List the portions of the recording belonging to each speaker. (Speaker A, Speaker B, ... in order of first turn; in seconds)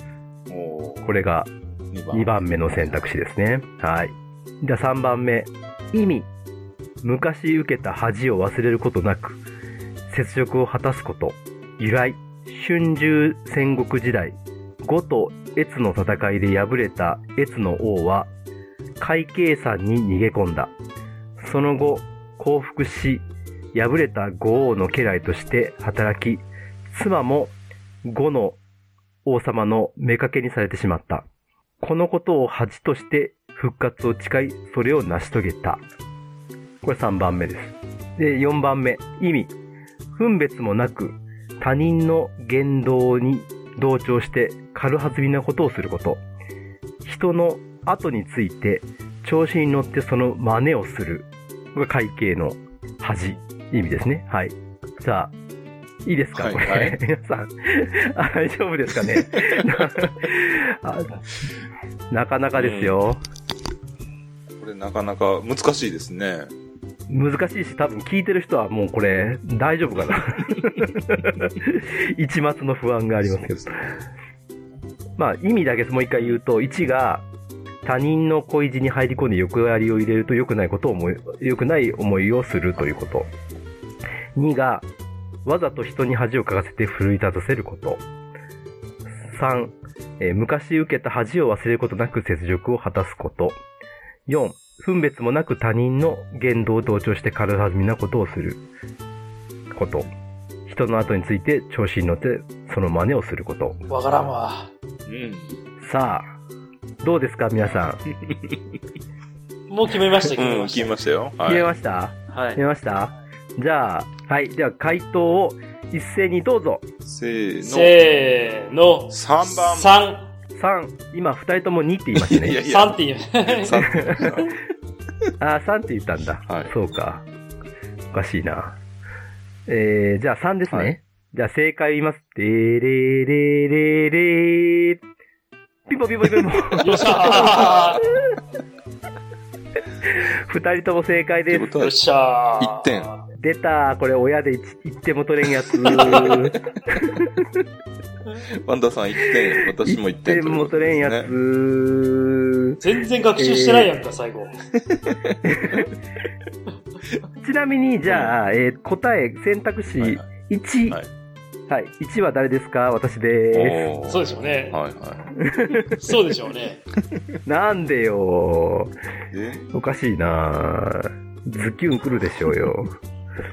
Speaker A: 0.5-1.2, 1.9-2.4, 56.3-57.0, 62.5-63.0, 64.6-66.5, 73.2-73.8, 105.1-105.6, 108.2-108.6, 110.3-111.7, 117.0-118.1, 119.1-119.9, 122.1-124.6, 126.5-126.7, 141.5-142.0, 142.6-143.1, 146.1-146.4, 148.6-151.3, 154.9-155.9, 158.1-158.4, 160.0-160.3, 163.5-165.4, 169.3-169.7
Speaker B: 1.0-1.5, 2.1-6.3, 7.0-9.4, 10.1-18.3, 19.0-20.7, 21.4-28.6, 29.2-31.2, 31.8-35.8, 36.8-39.5, 40.1-46.2, 47.0-55.3, 56.0-61.2, 62.1-63.2, 67.1-73.9, 75.2-77.2, 77.8-83.3, 84.3-84.9, 85.4-88.0, 89.3-93.6, 94.3-98.6, 99.7-100.1, 100.7-103.8, 105.8-106.2, 107.0-108.0, 111.4-116.8, 120.5-122.6, 123.8-124.4, 125.4-127.2, 128.1-128.8, 129.7-135.0, 135.9-138.3, 140.1-141.8, 143.4-147.6, 149.3-152.8, 153.4-153.9, 155.4-155.9, 157.4-161.0, 161.7-163.9, 165.4-166.0, 167.4-168.9, 169.7-172.9
Speaker C: 103.9-104.7, 109.7-110.9, 112.3-112.6, 117.6-120.3, 122.6-123.8, 136.8-138.1, 141.8-143.2, 145.9-146.4, 152.8-154.6, 164.1-164.8, 165.9-166.8